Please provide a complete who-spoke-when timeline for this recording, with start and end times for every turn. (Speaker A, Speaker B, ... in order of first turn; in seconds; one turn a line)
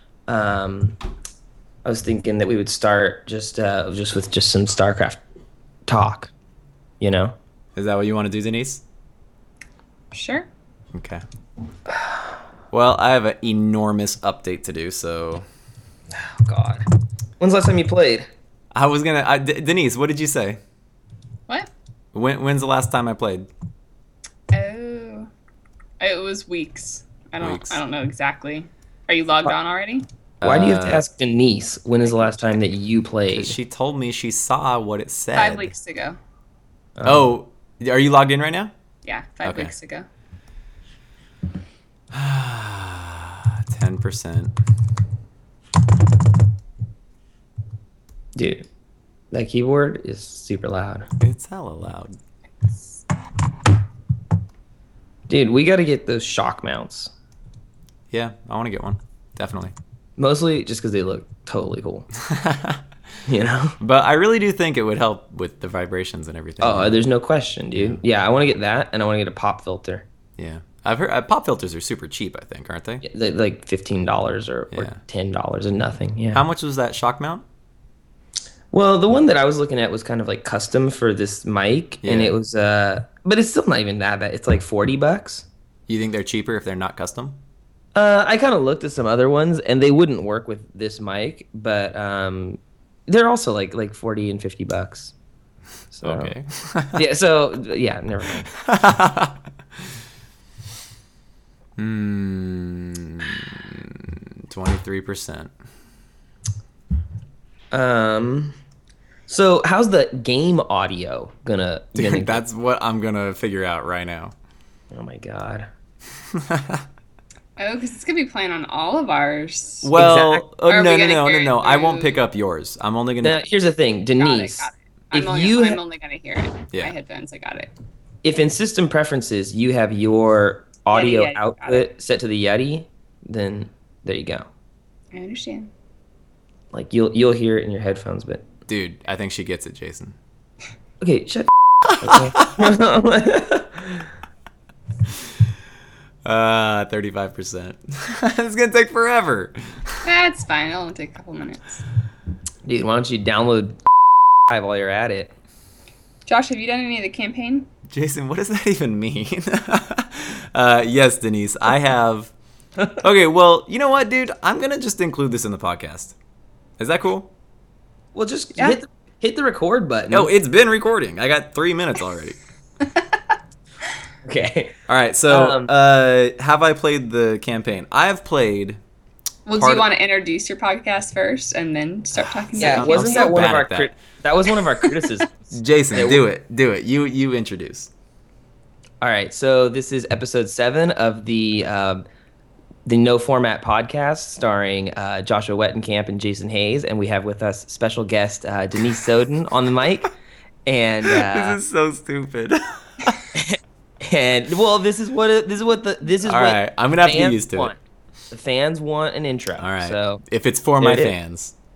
Speaker A: 0.3-1.0
Speaker A: 1.8-5.2
Speaker A: 5.9-6.3
Speaker A: 7.0-7.3
Speaker B: 7.7-8.8
Speaker C: 10.1-10.5
Speaker B: 10.9-11.2
Speaker A: 11.9-12.2
Speaker B: 12.7-15.4
Speaker A: 16.1-16.8
Speaker A: 17.4-18.3
Speaker B: 18.7-20.6
Speaker B: 22.1-23.5
Speaker C: 24.5-25.3
Speaker C: 26.0-30.1
Speaker B: 27.4-27.8
Speaker B: 30.4-31.0
Speaker A: 30.4-33.5
Speaker B: 33.3-35.7
Speaker C: 35.3-36.2
Speaker A: 37.0-37.3
Speaker B: 37.0-38.7
Speaker C: 39.0-40.0
Speaker B: 39.4-39.7
Speaker B: 42.1-44.5
Speaker A: 48.4-48.6
Speaker A: 49.3-51.1
Speaker B: 51.2-52.2
Speaker A: 55.3-57.1
Speaker B: 58.1-59.7
Speaker A: 60.2-62.1
Speaker B: 62.2-62.8
Speaker A: 63.3-63.8
Speaker B: 63.8-67.0
Speaker A: 66.6-70.1
Speaker B: 67.7-68.0
Speaker B: 70.4-73.0
Speaker A: 73.0-76.4
Speaker B: 74.7-75.0
Speaker B: 76.3-77.4
Speaker A: 78.7-85.5
Speaker B: 82.0-82.3
Speaker B: 85.9-87.4
Speaker A: 87.9-95.1
Speaker A: 95.9-96.3
Speaker B: 96.0-97.0
Speaker A: 96.9-98.5
Speaker B: 98.5-99.4
Speaker B: 101.8-105.5
Speaker A: 107.7-108.5
Speaker A: 109.3-112.4
Speaker B: 112.0-114.3
Speaker A: 114.9-115.7
Speaker B: 116.3-116.8
Speaker C: 117.6-119.9
Speaker B: 119.8-123.4
Speaker A: 119.9-120.5
Speaker C: 120.7-122.2
Speaker A: 123.2-125.8
Speaker C: 124.2-127.7
Speaker A: 128.2-134.5
Speaker C: 130.9-131.9
Speaker C: 135.1-135.7
Speaker A: 136.7-138.5
Speaker B: 138.7-140.2
Speaker A: 141.0-144.1
Speaker B: 142.1-142.4
Speaker B: 146.2-150.0
Speaker C: 150.0-151.8
Speaker A: 152.6-153.8
Speaker A: 154.5-155.3
Speaker C: 156.3-157.7
Speaker B: 157.9-162.3
Speaker B: 163.0-166.2
Speaker B: 166.8-167.3
Speaker A: 168.1-170.3
Speaker B: 170.1-172.4
Speaker A: 174.2-175.7
Speaker B: 174.9-178.8
Speaker C: 179.5-183.4
Speaker B: 179.6-179.9
Speaker B: 182.2-183.9
Speaker A: 182.6-186.2
Speaker B: 185.5-187.9
Speaker A: 189.0-192.0
Speaker A: 192.8-200.1
Speaker A: 200.7-201.6
Speaker B: 201.0-203.3
Speaker A: 203.3-207.8
Speaker B: 206.2-207.7
Speaker A: 208.3-210.2
Speaker B: 209.6-211.5
Speaker A: 210.8-211.1